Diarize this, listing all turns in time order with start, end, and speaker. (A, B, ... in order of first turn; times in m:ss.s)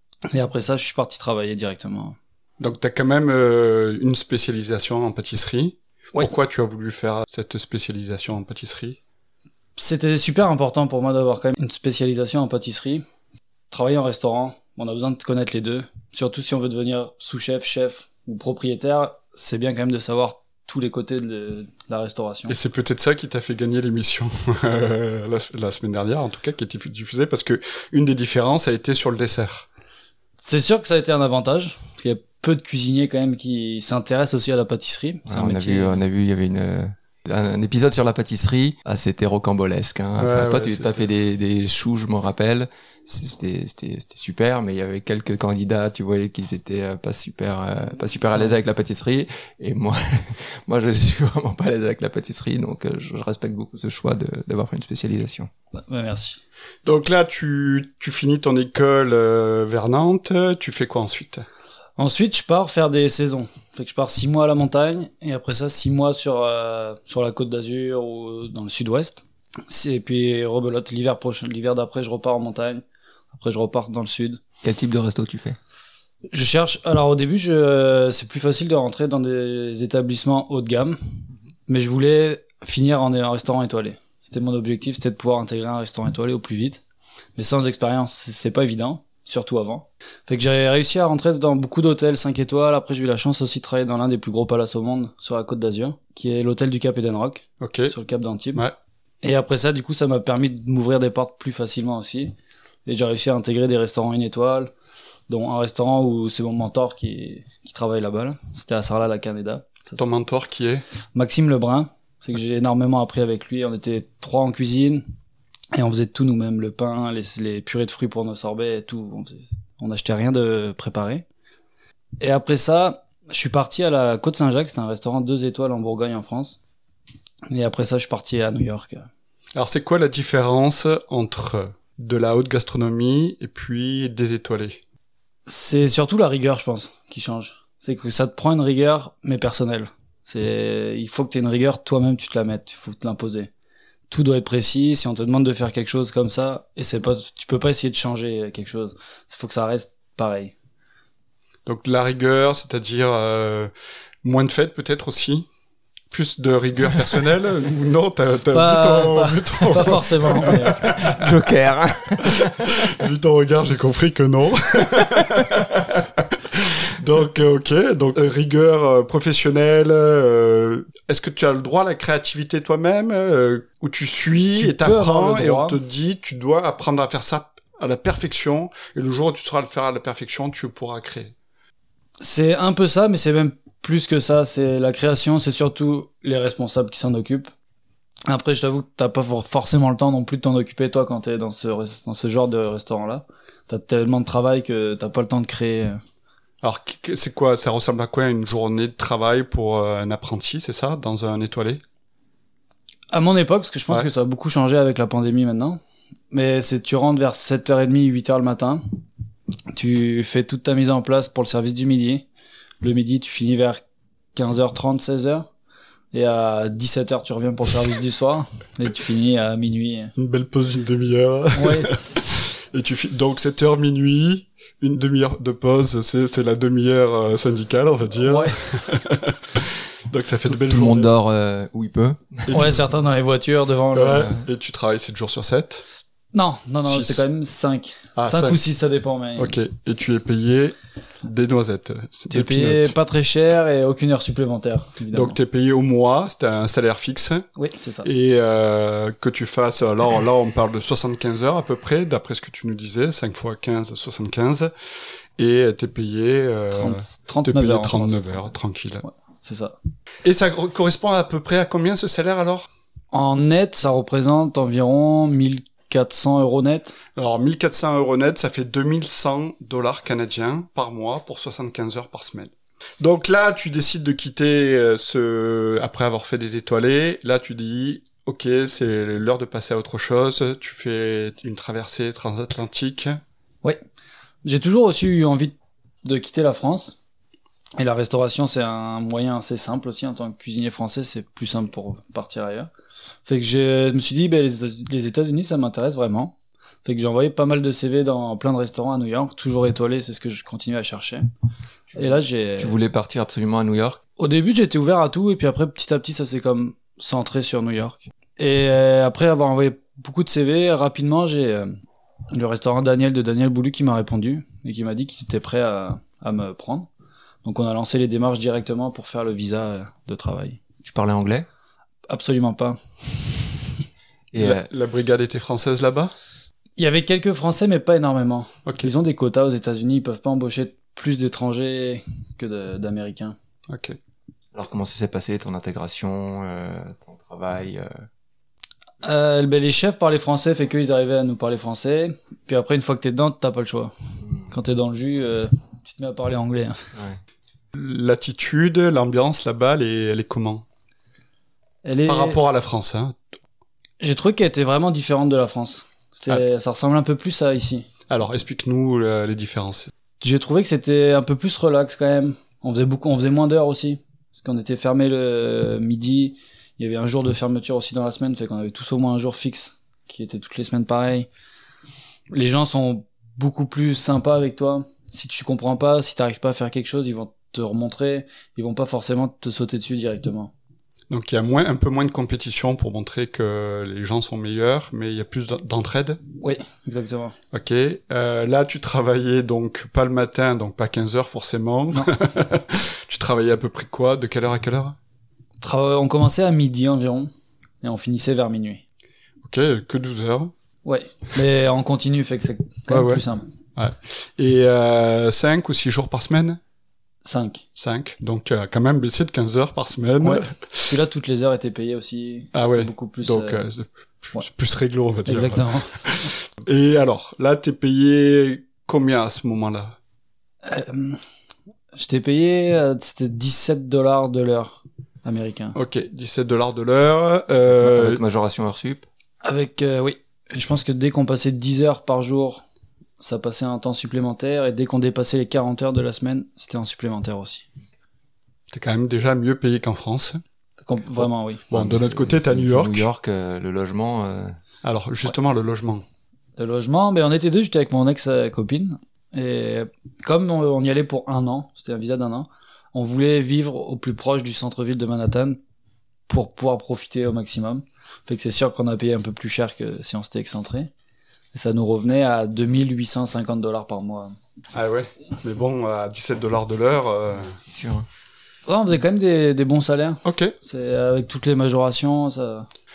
0:00.3-0:02.2 A
0:02.6-0:09.0 B
0:09.8-0:13.0 A
0:13.7-0:22.6 A
0:22.5-0:29.7 B
0:30.4-0:36.0 A
0:35.3-0:55.5 C
0:40.2-0:40.9 B
0:55.7-0:56.4 A
0:56.8-1:01.5 B
1:02.0-1:14.4 A
1:14.6-1:15.6 C
1:16.3-1:21.1 A
1:21.7-1:26.8 A
1:27.4-1:38.6 A
1:37.6-1:37.9 B
1:39.2-1:42.3 A
1:42.9-1:44.7 A
1:45.3-1:50.0 A
1:50.0-1:50.8 B
1:51.1-1:55.0 A
1:55.7-2:01.2 A
2:02.2-2:06.6 A
2:07.5-2:09.1 A
2:09.6-2:14.8 B
2:15.5-2:23.5 A
2:24.1-2:30.5 A
2:31.7-2:33.7 B
2:34.2-2:35.5 B
2:36.1-2:41.3 B
2:38.5-2:40.9 A
2:40.8-2:42.7 C
2:42.2-3:01.4 B
2:54.6-2:55.8 A
3:02.2-3:07.5 A
3:08.3-3:16.0 A
3:16.6-3:21.8 B
3:23.1-3:25.8 A
3:26.3-3:28.8 A
3:29.7-3:32.3 A
3:32.8-3:33.8 A
3:34.4-3:35.5 A
3:36.1-3:40.1 A
3:40.2-3:51.1 B
3:41.6-3:42.1 A
3:48.2-3:48.6 A
3:50.4-3:52.5 C
3:52.5-3:52.8 B
3:52.5-3:54.3 A
3:53.9-3:55.9 B
3:56.3-3:59.5 A
3:56.8-3:57.2 B
3:58.2-3:58.6 B
3:59.4-4:02.9 B
4:02.3-4:05.4 A
4:05.1-4:07.5 B
4:07.6-4:08.1 A
4:08.0-4:14.7 B
4:15.4-4:19.0 B
4:16.7-4:18.5 A
4:19.0-4:19.8 A
4:20.2-4:22.7 B
4:23.1-4:27.0 A
4:27.2-4:43.2 B
4:44.4-4:47.0 A
4:47.8-4:52.7 A
4:53.3-5:01.3 A
5:01.9-5:02.7 A
5:02.6-5:04.0 C
5:04.2-5:11.8 A
5:12.3-5:16.9 A
5:17.4-5:20.6 A
5:20.8-5:21.5 C
5:22.1-5:23.5 A
5:24.3-5:24.7 C
5:24.4-5:26.1 B
5:26.8-5:33.4 A
5:33.7-5:34.0 B
5:34.5-5:38.1 C
5:39.0-5:46.9 A
5:47.7-5:50.6 B
5:51.8-5:52.4 A
5:52.1-5:53.2 B
5:54.0-5:57.9 A
5:58.1-5:59.9 B
6:00.2-6:11.3 A
6:12.3-6:20.5 A
6:21.1-6:26.2 B
6:26.4-6:27.4 A
6:27.5-6:35.0 B
6:35.6-6:37.3 A
6:37.8-6:38.8 A
6:39.4-6:40.5 B
6:40.8-6:43.4 A
6:42.9-6:43.2 B
6:43.8-6:46.6 B
6:47.2-6:47.6 A
6:47.8-6:51.0 B
6:50.2-6:53.7 A
6:52.5-7:00.0 B
6:55.3-6:56.0 A
7:00.6-7:01.2 A
7:01.9-7:05.8 A
7:05.8-7:08.2 B
7:07.7-7:09.1 C
7:09.4-7:12.6 A
7:13.2-7:17.7 A
7:18.7-7:20.4 B
7:20.8-7:21.6 A
7:21.7-7:23.1 B
7:21.7-7:24.6 C
7:24.8-7:26.0 B
7:26.6-7:35.6 A
7:36.3-7:40.9 A
7:41.5-7:44.3 A
7:44.7-7:47.6 B
7:47.6-7:48.1 C
7:48.7-7:52.7 A
7:50.2-7:50.5 B